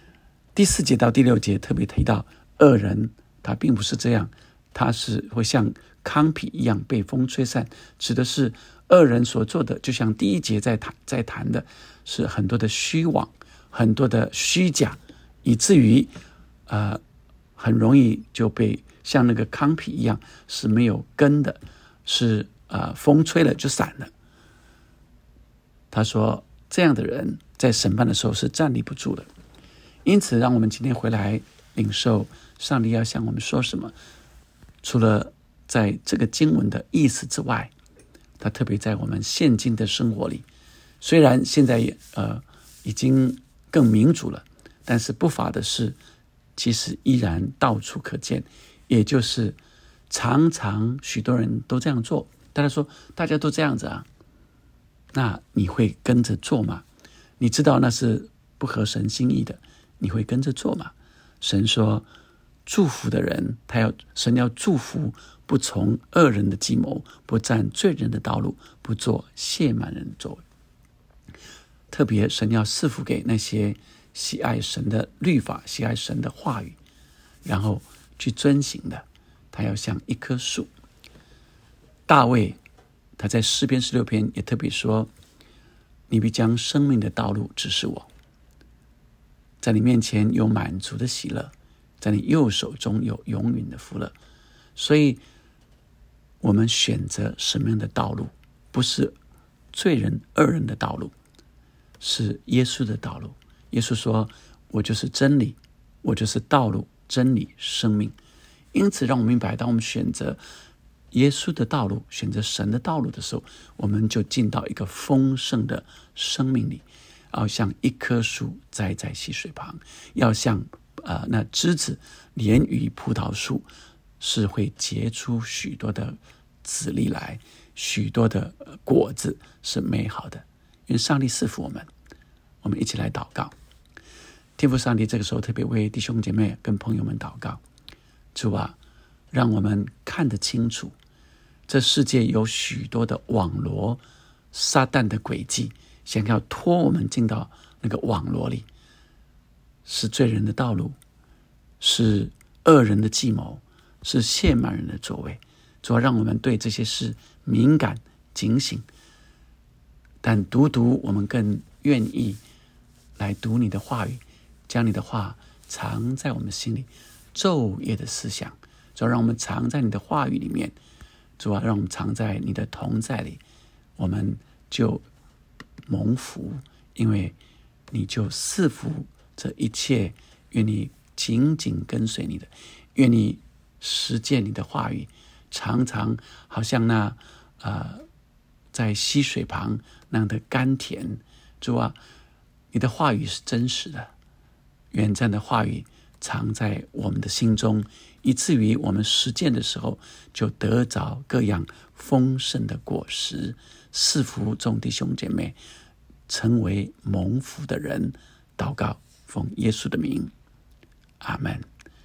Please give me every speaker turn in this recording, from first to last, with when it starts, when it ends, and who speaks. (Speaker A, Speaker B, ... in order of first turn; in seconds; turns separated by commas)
Speaker A: 0.6-16.1, Speaker A: 16.7-17.0, Speaker A: 17.6-24.1, Speaker A: 25.9-29.3, Speaker A: 30.1-33.9, Speaker A: 34.8-37.7, Speaker A: 38.4-40.5, Speaker A: 41.0-46.0, Speaker A: 46.6-49.6, Speaker A: 50.1-54.1, Speaker A: 55.1-56.8, Speaker A: 57.4-62.1, Speaker A: 62.6-70.4, Speaker A: 71.9-76.8, Speaker A: 77.5-80.7, Speaker A: 82.1-82.6, Speaker A: 83.2-85.1, Speaker A: 86.1-88.1, Speaker A: 89.6-94.2, Speaker A: 94.8-95.2, Speaker A: 96.4-99.2, Speaker A: 99.7-101.1, Speaker A: 102.0-108.2, Speaker A: 108.7-110.4, Speaker A: 111.1-123.7, Speaker A: 124.2-131.9, Speaker A: 132.6-133.5, Speaker A: 134.6-137.6, Speaker A: 138.3-138.8, Speaker A: 139.3-140.9, Speaker A: 141.7-148.7, Speaker A: 149.8-151.0, Speaker A: 151.8-158.9, Speaker A: 160.2-162.4, Speaker A: 163.2-170.8, Speaker A: 171.4-173.4, Speaker A: 174.0-175.1, Speaker A: 175.9-177.4, Speaker A: 177.9-188.1, Speaker A: 188.7-192.0, Speaker A: 192.7-194.1, Speaker A: 194.9-205.6, Speaker A: 206.3-210.3, Speaker A: 211.2-211.7